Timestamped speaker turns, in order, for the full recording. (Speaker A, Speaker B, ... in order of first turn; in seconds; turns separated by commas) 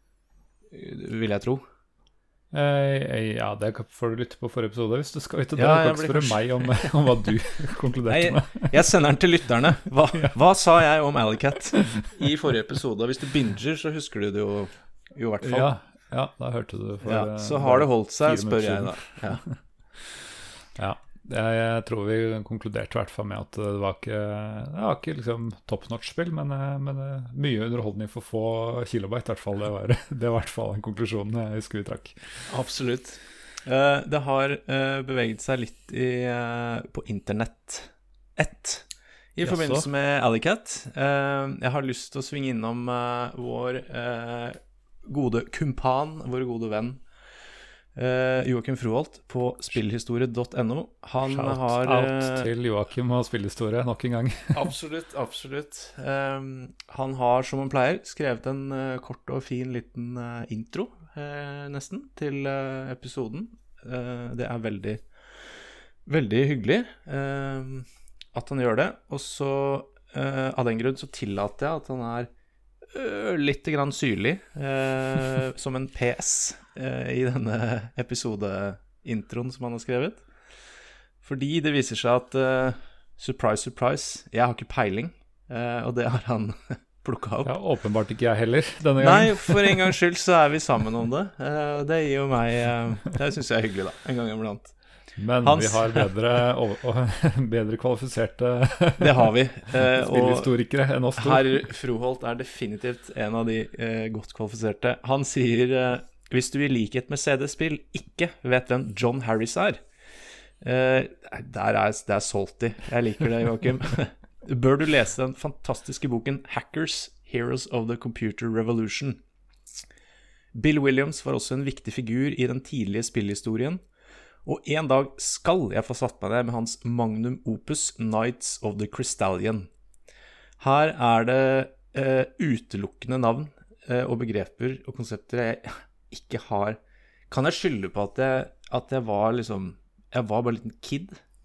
Speaker A: 0.7-1.6, Speaker B: 2.5-8.8, Speaker A: 5.6-6.9, Speaker A: 8.1-15.7, Speaker B: 15.4-32.5, Speaker A: 17.0-19.4, Speaker A: 32.5-47.0, Speaker B: 39.4-39.9, Speaker A: 48.0-52.5, Speaker B: 51.2-54.7, Speaker A: 54.5-65.0, Speaker A: 66.1-72.3, Speaker A: 72.9-80.2, Speaker A: 81.2-87.5, Speaker B: 87.5-89.9, Speaker A: 89.0-94.8, Speaker B: 95.2-101.7, Speaker A: 95.4-96.1, Speaker A: 99.0-100.5, Speaker A: 101.2-109.8, Speaker A: 110.6-119.2, Speaker A: 120.5-123.8, Speaker A: 124.5-129.7, Speaker A: 130.6-136.8, Speaker A: 137.3-141.2